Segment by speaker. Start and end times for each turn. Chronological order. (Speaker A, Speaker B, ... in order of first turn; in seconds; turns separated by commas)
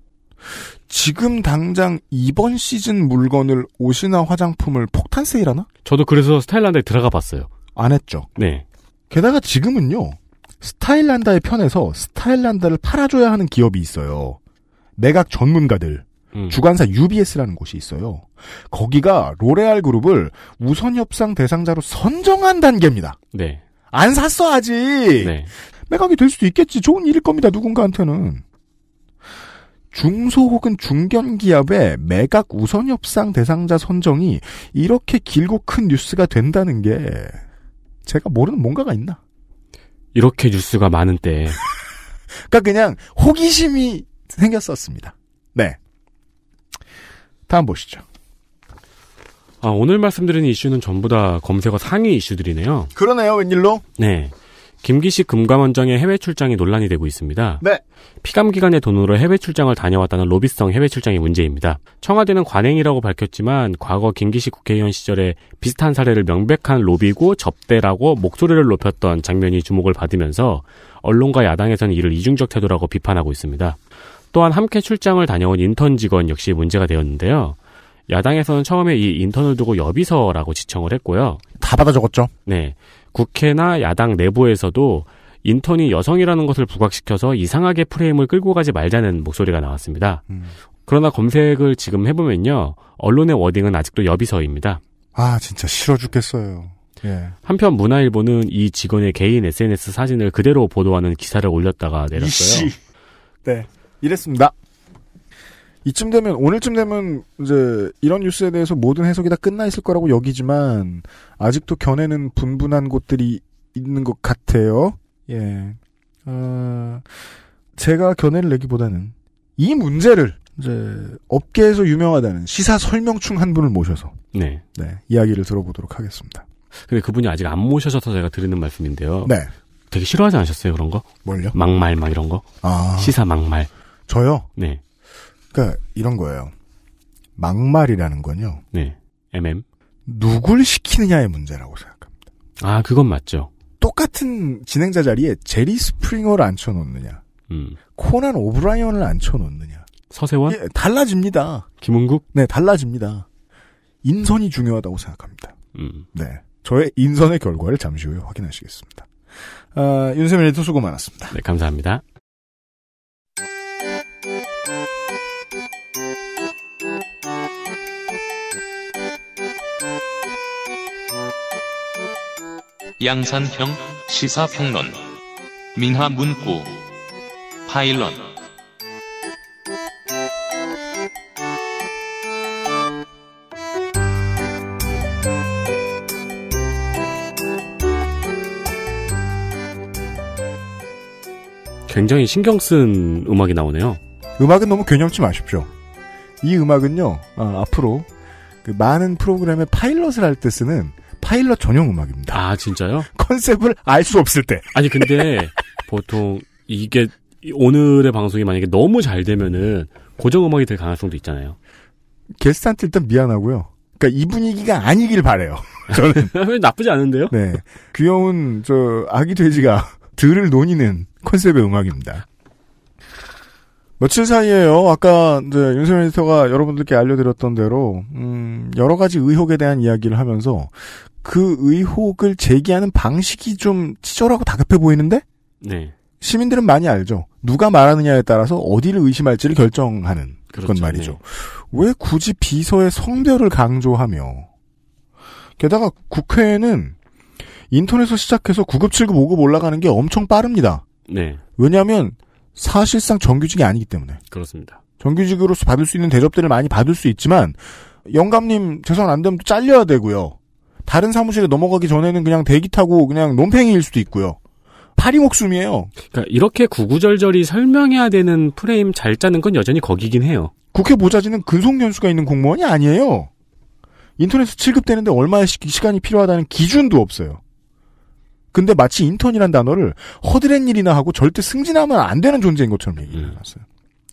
Speaker A: 0.5-5.7, Speaker B: 5.8-7.5, Speaker A: 7.7-8.3, Speaker B: 8.4-8.6, Speaker A: 9.1-14.4, Speaker A: 15.0-23.2, Speaker B: 16.3-16.6, Speaker B: 23.3-23.6, Speaker A: 23.9-25.3, Speaker B: 25.2-25.5, Speaker A: 25.9-28.4, Speaker A: 29.9-37.4, Speaker A: 38.0-39.2, Speaker B: 40.1-41.6, Speaker A: 42.5-45.8, Speaker A: 47.5-48.0, Speaker B: 49.6-52.9, Speaker A: 53.0-53.8, Speaker B: 54.0-57.6, Speaker B: 58.2-73.8, Speaker B: 74.3-77.6, Speaker B: 78.1-81.4, Speaker A: 81.6-82.3, Speaker B: 82.5-90.2, Speaker B: 90.8-94.8, Speaker A: 95.1-97.3, Speaker B: 97.4-102.7, Speaker A: 102.1-102.8, Speaker A: 103.4-104.5, Speaker A: 105.8-117.0, Speaker A: 117.8-124.2, Speaker B: 124.3-124.6, Speaker A: 124.7-126.5, Speaker B: 126.9-129.3, Speaker A: 129.2-129.5, Speaker B: 129.9-132.4, Speaker A: 131.2-131.6, Speaker A: 132.6-133.1, Speaker B: 133.0-133.7, Speaker A: 134.1-134.5, Speaker A: 135.5-136.5, Speaker A: 137.4-138.6, Speaker B: 138.7-139.6, Speaker A: 140.1-142.2, Speaker B: 142.6-143.5, Speaker A: 143.8-147.2, Speaker B: 147.5-147.8, Speaker A: 147.9-149.9, Speaker B: 150.1-150.6, Speaker A: 150.5-151.7, Speaker B: 151.8-152.2, Speaker A: 152.3-153.2, Speaker A: 154.0-155.6, Speaker B: 155.7-156.0, Speaker A: 156.1-159.1, Speaker A: 159.7-161.3, Speaker B: 161.3-162.0, Speaker C: 173.0-175.0, Speaker C: 175.7-176.8, Speaker C: 177.7-178.3, Speaker B: 191.9-194.0, Speaker A: 194.4-195.7, Speaker A: 196.4-198.1, Speaker A: 198.6-202.4, Speaker B: 202.3-203.1, Speaker A: 203.1-205.3, Speaker B: 204.7-211.6, Speaker A: 212.4-216.3, Speaker B: 216.3-217.3, Speaker A: 217.3-222.2, Speaker A: 224.0-235.2, Speaker B: 235.6-235.9, Speaker A: 236.2-244.5, Speaker B: 240.5-241.2, Speaker A: 245.6-246.9, Speaker A: 247.7-250.8, Speaker B: 251.1-251.4, Speaker A: 251.6-254.2, Speaker B: 254.3-254.8, Speaker A: 255.0-264.4, Speaker A: 265.0-265.9, Speaker B: 266.0-270.5, Speaker A: 270.7-273.3, Speaker A: 274.2-277.4, Speaker A: 278.5-283.6